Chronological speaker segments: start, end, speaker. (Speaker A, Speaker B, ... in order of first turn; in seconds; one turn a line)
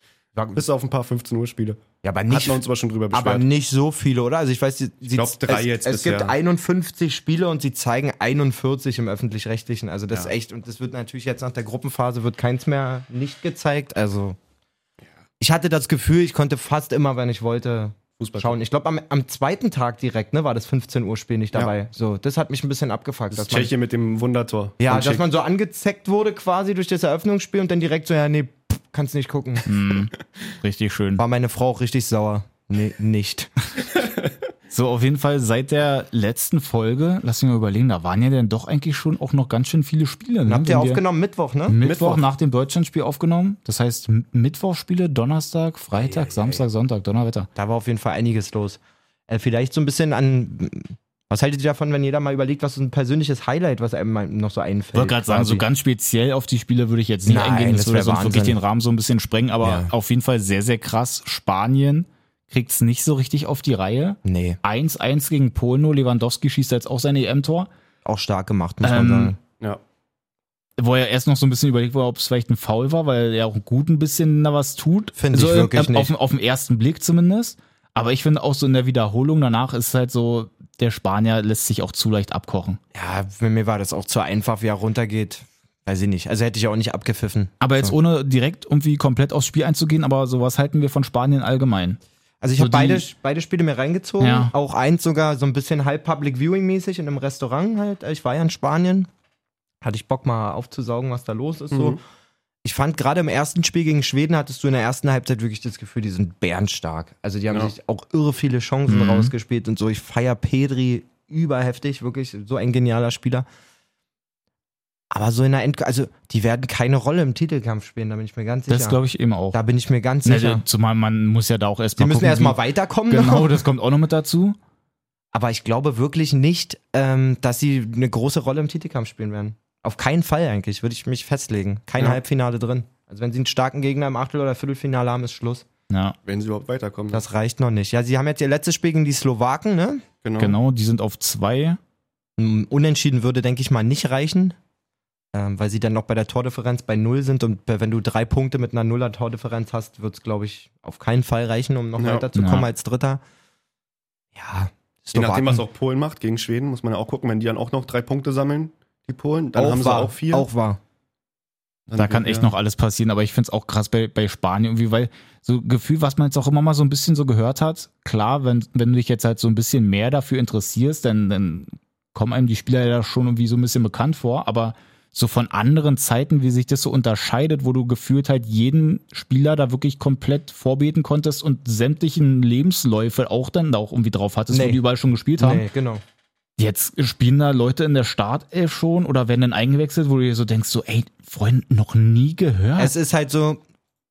Speaker A: 0.3-0.6
Speaker B: 0.6-3.4
Speaker A: 2.0-14.4
Speaker B: 5.1-6.3
Speaker A: 15.4-23.7
Speaker B: 18.2-18.6
Speaker B: 23.3-25.2
Speaker A: 24.8-29.7
Speaker C: 29.6-31.2
Speaker A: 31.2-33.5
Speaker C: 34.7-41.0
Speaker A: 40.5-41.8
Speaker C: 41.7-47.5
Speaker B: 41.8-42.2
Speaker A: 45.9-46.6
Speaker A: 47.5-55.6
Speaker C: 55.0-67.7
Speaker A: 57.3-58.6
Speaker A: 59.6-59.9
Speaker A: 64.2-64.6
Speaker A: 68.0-69.4
Speaker C: 68.8-69.3
Speaker C: 70.8-82.8
Speaker A: 75.2-76.1
Speaker A: 82.9-88.0
Speaker C: 87.6-92.0
Speaker A: 92.4-99.1
Speaker C: 92.6-93.1
Speaker C: 94.2-94.5
Speaker A: 99.8-102.0
Speaker B: 101.7-102.0
Speaker A: 102.6-113.5
Speaker C: 108.9-109.3
Speaker A: 115.1-119.0
Speaker C: 118.7-119.6
Speaker A: 119.5-120.6
Speaker C: 120.2-124.6
Speaker A: 122.0-123.6
Speaker A: 125.3-135.7
Speaker C: 135.9-136.2
Speaker B: 136.2-137.2
Speaker A: 137.1-140.1
Speaker B: 140.2-140.6
Speaker C: 140.4-141.8
Speaker A: 142.4-144.6
Speaker A: 145.3-153.2
Speaker B: 152.0-152.2
Speaker C: 152.3-152.7
Speaker A: 154.3-155.6
Speaker B: 155.1-160.5
Speaker A: 159.6-160.8
Speaker B: 161.9-162.5
Speaker C: 161.9-185.7
Speaker A: 184.5-184.8
Speaker A: 185.4-186.0
Speaker C: 186.6-192.9
Speaker A: 192.8-193.6